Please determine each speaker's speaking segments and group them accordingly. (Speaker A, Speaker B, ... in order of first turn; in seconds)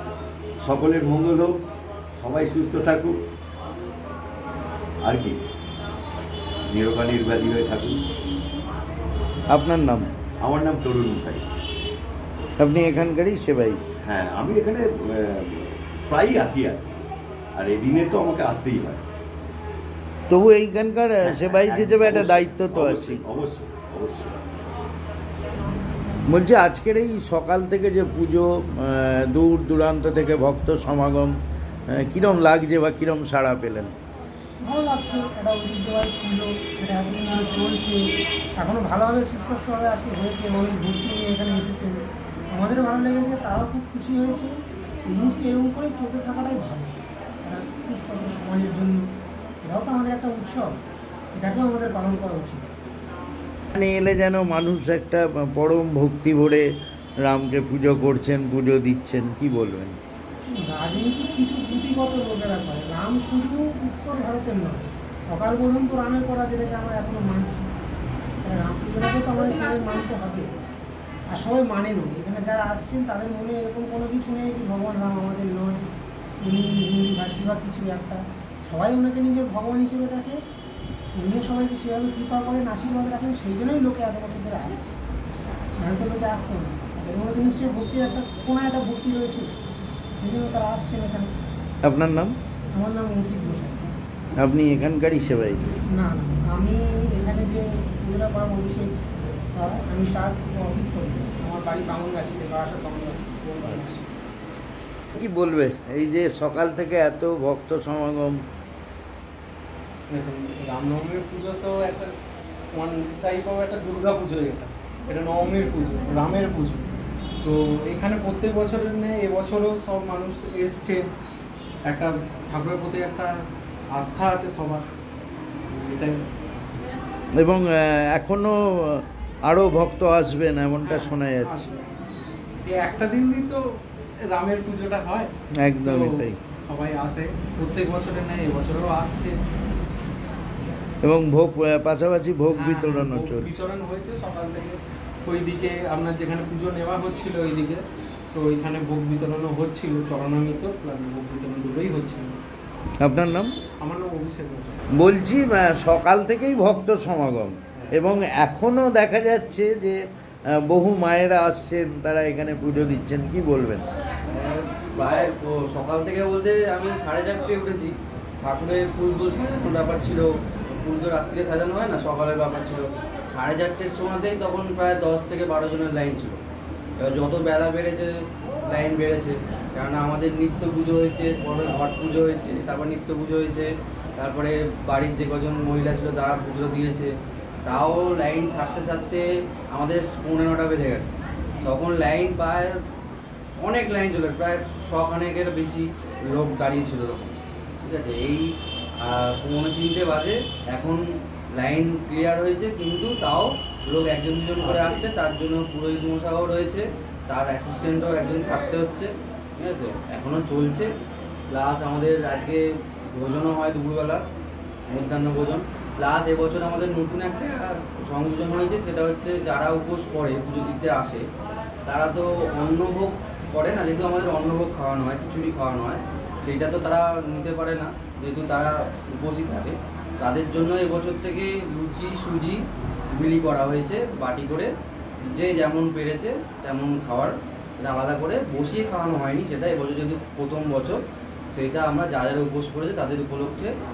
Speaker A: 0.6-1.5, 2.2-3.1, 5.0-5.4, 6.7-8.0, 10.4-11.5, 14.0-17.0, 17.6-19.0, 21.2-24.4
Speaker B: 9.5-10.1, 12.6-13.8, 20.3-23.2, 26.3-31.3, 31.9-33.9, 53.7-56.6, 57.2-60.0, 91.8-92.3, 94.4-95.7, 105.2-108.4, 127.4-131.7, 135.6-136.4, 141.0-143.4, 153.0-153.5, 155.0-160.0, 160.7-163.8
Speaker C: 34.6-38.0, 38.6-42.0, 42.5-44.5, 45.1-46.9, 47.5-49.0, 49.6-50.8, 51.3-52.6, 60.6-67.7, 68.4-70.5, 71.3-75.8, 76.4-80.4, 81.2-84.9, 85.8-89.5, 90.2-91.3, 92.7-93.9, 95.9-98.9, 99.5-104.1
Speaker D: 110.1-112.1, 112.7-116.8, 117.4-121.0, 121.9-123.3, 123.9-124.8, 125.7-126.2, 130.8-131.7, 132.6-133.6, 134.3-135.3, 135.8-139.3, 142.5-152.3, 153.8-154.8
Speaker E: 164.3-176.4, 177.0-178.1, 178.7-187.1, 187.6-192.8, 193.6-198.4, 199.0-201.0, 201.6-210.9, 211.5-212.6, 213.1-214.2, 214.9-221.2, 221.9-232.6, 233.2-234.7, 235.3-241.0, 241.5-243.7